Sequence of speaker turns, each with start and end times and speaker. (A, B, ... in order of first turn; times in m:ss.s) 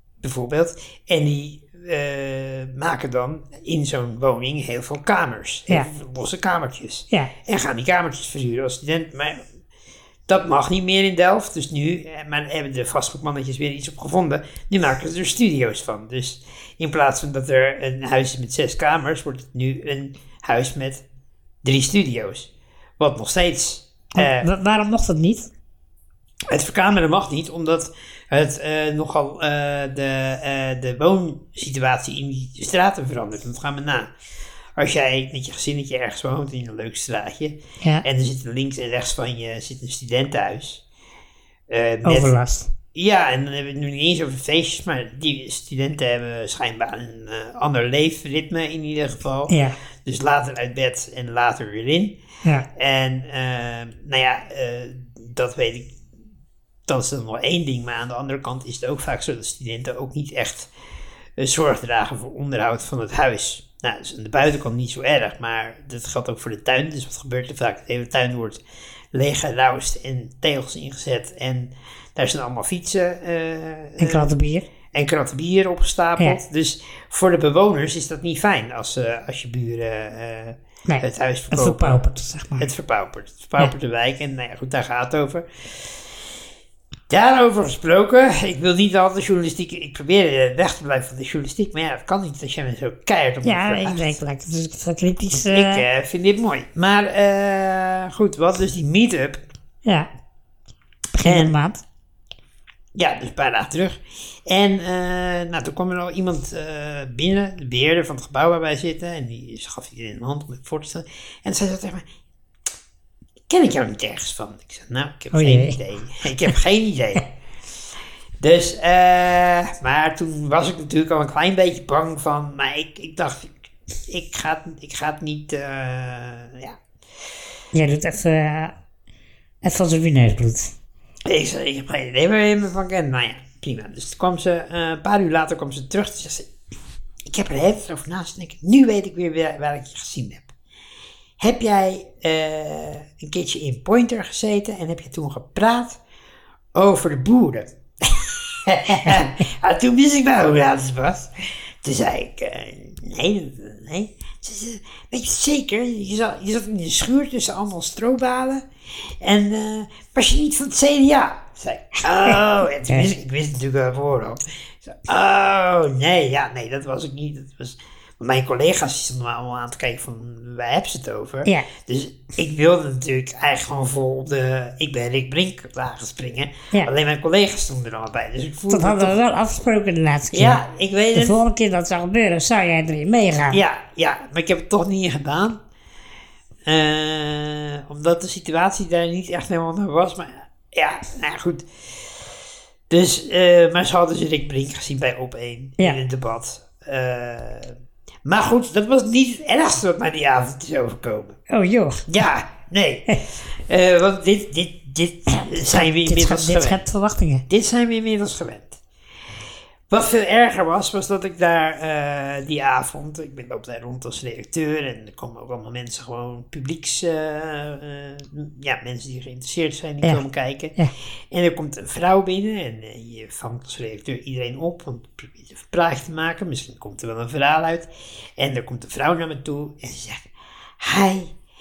0:00.2-0:09.4 A
0:10.3-0:21.0 A
0:21.6-0:24.5 A
0:24.1-0:25.5 B
0:26.5-0:34.1 A
0:34.8-0:40.8 A
0:41.7-0:42.4 A
0:42.0-0:42.7 B
0:42.9-0:49.5 A
0:49.5-0:49.8 B
0:50.0-0:52.2 A
0:52.8-0:56.0 A
0:56.9-1:00.7 A
1:01.4-1:08.6 A
1:09.1-1:14.3 A
1:14.0-1:14.7 B
1:14.9-1:22.0 A
1:20.9-1:22.7 B
1:22.6-1:25.8 A
1:27.1-1:34.2 A
1:33.4-1:35.8 B
1:35.4-1:39.4 A
1:39.8-1:40.1 B
1:41.1-1:41.8 B
1:41.2-1:41.5 A
1:42.9-1:52.0 A
1:53.5-1:57.3 A
1:55.3-1:55.8 B
1:58.4-2:06.8 A
2:07.7-2:08.7 B
2:09.6-2:10.7 B
2:11.2-2:16.5 A
2:17.2-2:20.5 A
2:21.4-2:26.0 A
2:26.7-2:31.3 A
2:31.8-2:38.6 A
2:39.2-2:59.2 A
2:58.7-3:00.6 B
3:00.3-3:01.4 A
3:01.1-3:03.6 B
3:03.5-3:05.6 A
3:06.6-3:11.6 A
3:12.9-3:21.4 A
3:21.5-3:22.1 B
3:22.1-3:26.8 A
3:25.6-3:27.4 B
3:27.5-3:28.8 A
3:29.9-3:40.8 A
3:41.3-3:50.3 A
3:50.8-3:51.3 A